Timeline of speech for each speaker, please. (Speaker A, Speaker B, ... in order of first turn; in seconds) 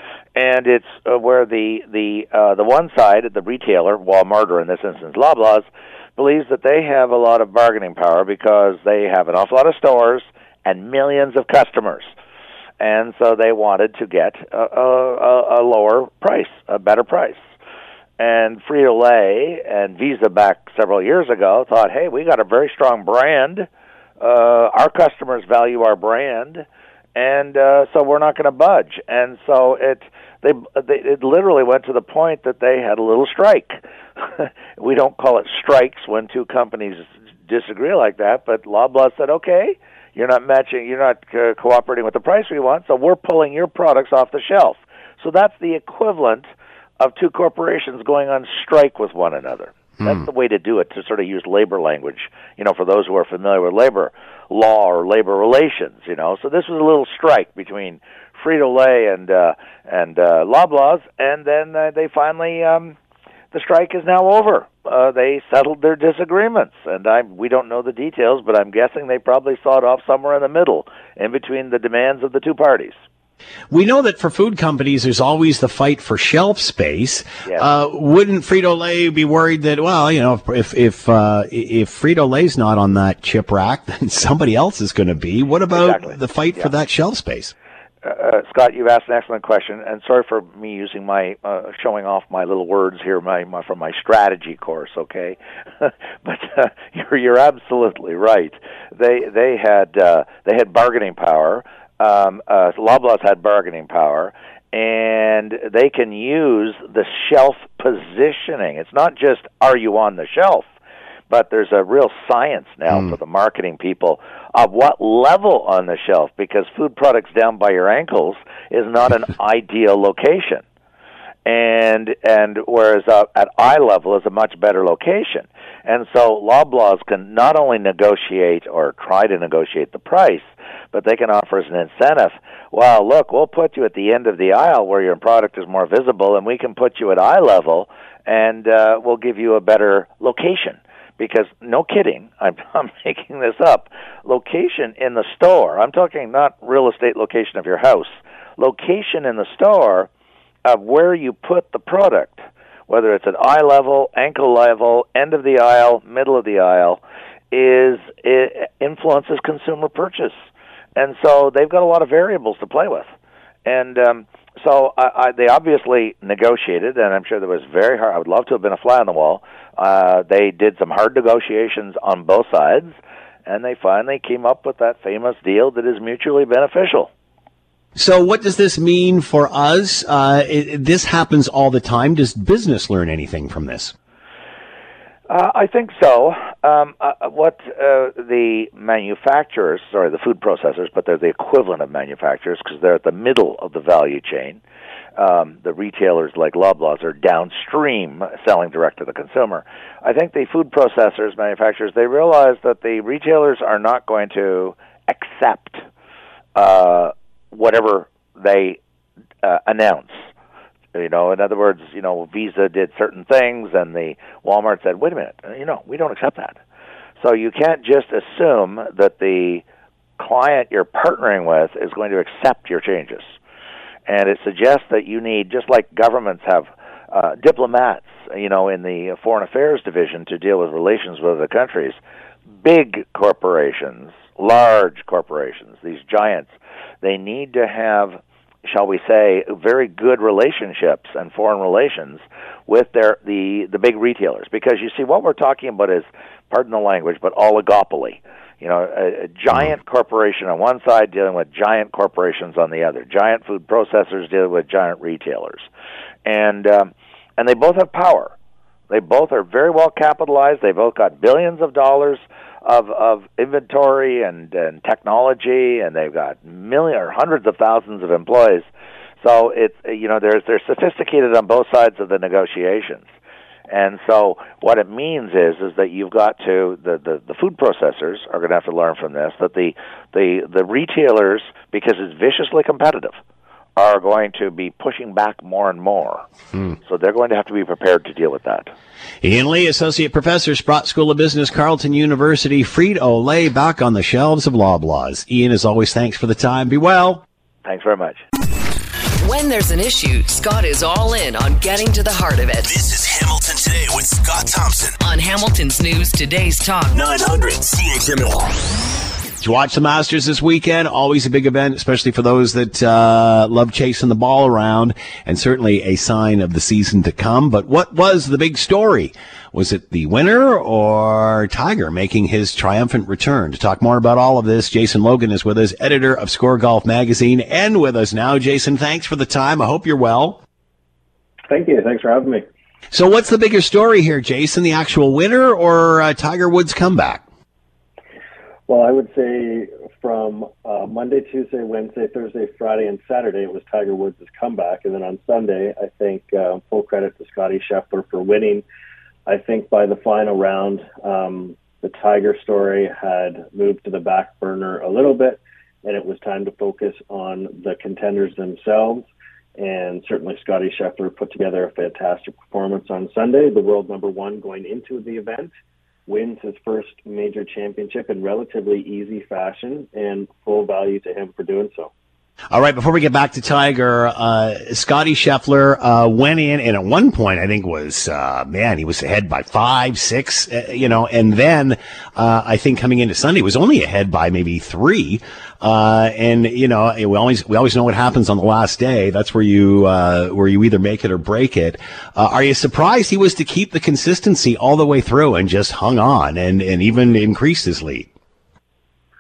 Speaker A: 0.4-12.1, 12.8-17.4, 18.2-23.7, 24.2-46.5, 47.0-63.0, 63.5-73.0, 85.7-86.7, 88.0-110.7, 111.3-120.6, 121.5-150.1, 150.6-160.4, 160.9-163.1, 163.6-177.1, 185.3-194.6, 195.2-205.8, 206.6-208.8, 209.4-210.3, 210.9-216.6, 217.2-219.6, 220.2-223.3, 224.1-232.0, 232.6-255.7, 256.2-258.3, 258.9-268.7, 269.2-273.1, 273.7-283.2, 283.8-286.2, 286.8-288.7, 297.6-298.2
Speaker B: 50.0-50.3, 73.7-87.5, 177.9-183.9, 289.2-297.2, 309.4-330.4, 332.9-337.2, 372.5-398.1
Speaker C: 299.2-302.7, 305.0-307.1
Speaker D: 302.6-305.0, 306.9-308.5
Speaker E: 331.5-332.4, 338.7-348.6, 349.3-365.5, 366.1-371.9